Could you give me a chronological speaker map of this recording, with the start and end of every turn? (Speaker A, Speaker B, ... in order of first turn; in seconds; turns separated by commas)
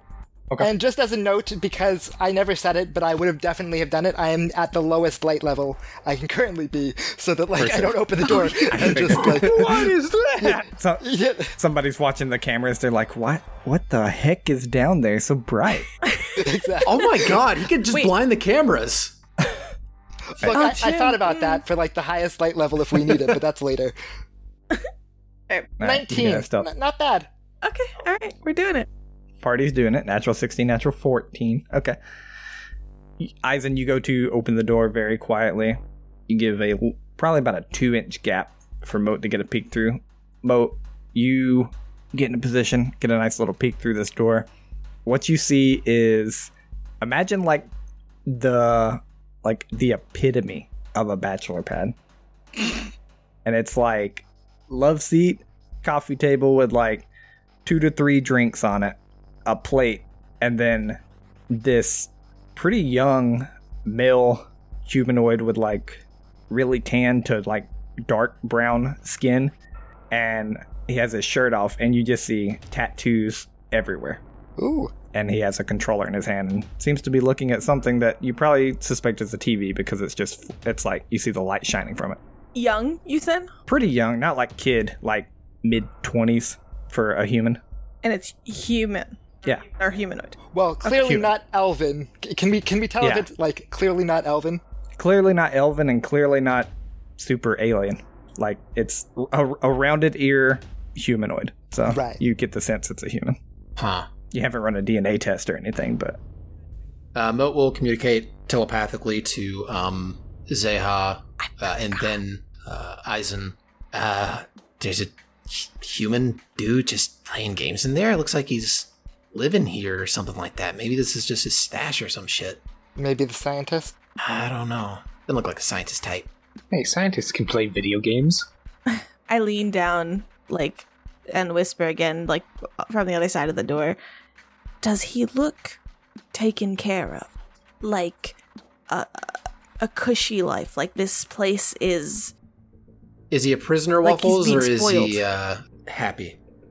Speaker A: 0.6-9.9, Speaker B: 7.6-9.9, Speaker C: 9.5-10.6, Speaker A: 10.4-11.6, Speaker B: 10.6-15.9, Speaker D: 16.1-16.5, Speaker A: 16.4-17.3, Speaker E: 16.9-19.2, Speaker A: 20.4-23.9, Speaker D: 20.5-21.6, Speaker B: 25.8-26.7, Speaker A: 25.8-27.3, Speaker D: 27.6-28.9, Speaker B: 29.4-32.0, Speaker B: 33.2-44.5, Speaker B: 45.1-47.7, Speaker B: 48.3-52.0, Speaker B: 52.5-52.9, Speaker B: 53.5-57.1, Speaker B: 57.6-61.0, Speaker B: 61.5-69.5, Speaker B: 70.1-74.2, Speaker A: 74.6-74.9, Speaker B: 75.1-82.2, Speaker D: 82.5-83.5, Speaker B: 83.7-87.6, Speaker D: 88.0-90.4, Speaker A: 90.5-94.6, Speaker B: 90.8-91.3, Speaker B: 93.0-93.3, Speaker B: 95.0-103.4, Speaker A: 101.9-102.2, Speaker E: 103.8-104.1, Speaker B: 104.3-106.2, Speaker E: 107.2-122.6, Speaker A: 123.0-124.0, Speaker E: 124.2-126.3, Speaker C: 126.7-128.5, Speaker D: 128.9-134.0, Speaker D: 134.8-135.8, Speaker D: 136.3-137.3, Speaker D: 137.8-138.4, Speaker D: 139.8-142.3, Speaker E: 143.3-146.4, Speaker D: 144.0-145.2